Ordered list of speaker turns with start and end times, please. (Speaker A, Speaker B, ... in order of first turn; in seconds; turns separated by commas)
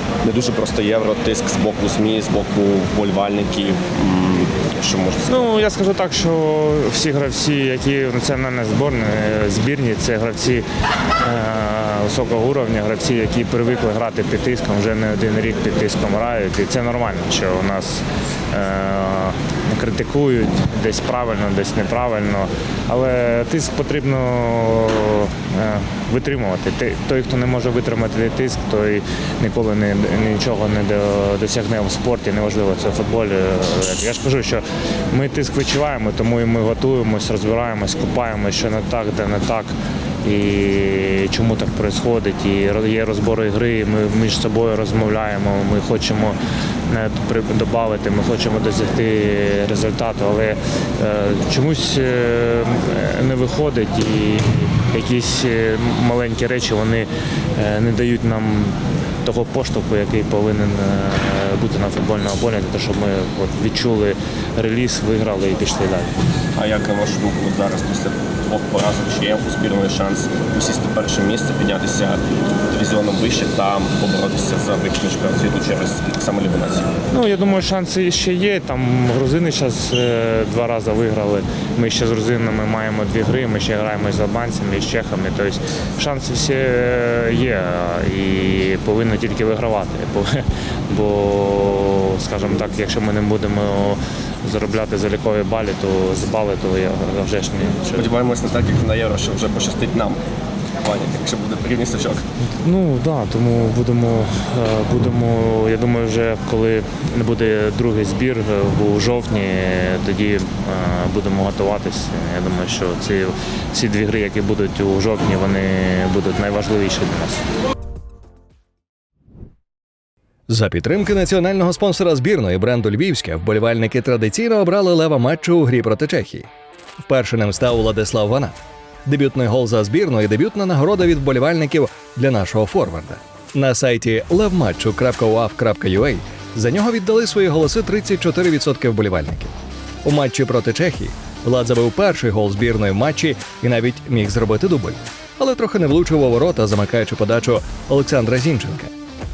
Speaker A: 0.2-5.5, Speaker B: 5.3-10.7, Speaker B: 11.2-66.2, Speaker A: 66.5-76.9, Speaker B: 77.1-98.1, Speaker A: 98.0-100.2, Speaker A: 100.8-102.2, Speaker B: 102.5-117.5, Speaker C: 120.5-126.5, Speaker C: 127.0-148.9